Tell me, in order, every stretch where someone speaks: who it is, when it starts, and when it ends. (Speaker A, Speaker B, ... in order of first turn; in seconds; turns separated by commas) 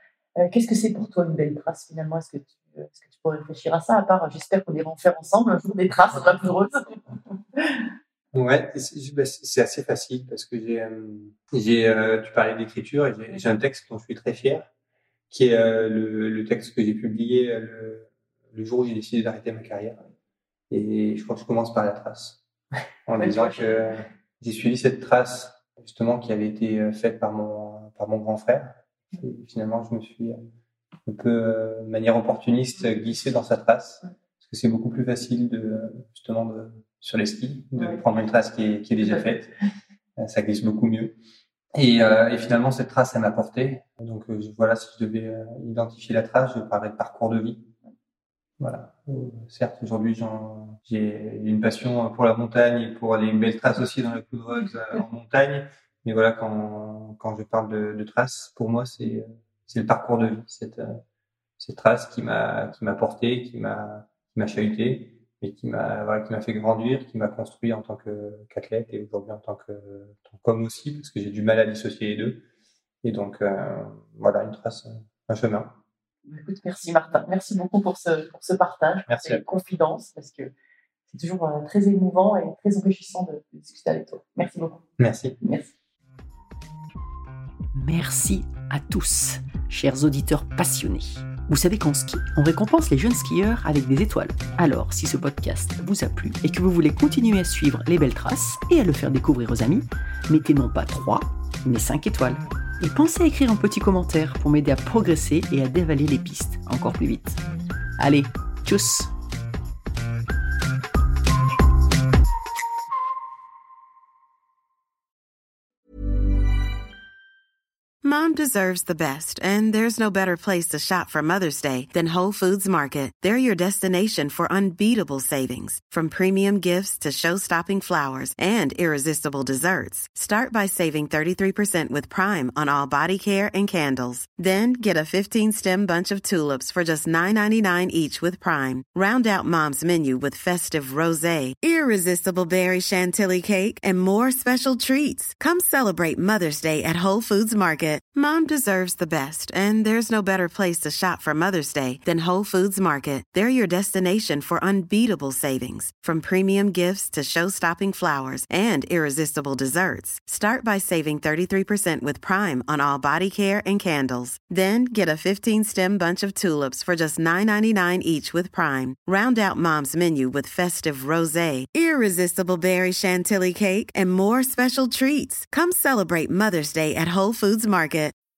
Speaker A: 0.4-7.0, Speaker A: 7.6-7.9, Speaker B: 8.3-14.7, Speaker B: 15.3-20.0, Speaker B: 20.7-22.4, Speaker B: 23.1-30.4, Speaker A: 23.2-23.9, Speaker B: 31.1-39.5, Speaker B: 40.2-41.2, Speaker B: 41.7-47.7, Speaker B: 48.6-61.0, Speaker B: 61.6-72.4, Speaker B: 73.0-75.7, Speaker A: 76.3-80.5, Speaker B: 79.1-79.4, Speaker A: 81.1-84.8, Speaker B: 85.0-85.4, Speaker A: 85.4-85.7, Speaker C: 87.8-107.4, Speaker C: 108.0-109.1, Speaker D: 118.0-178.1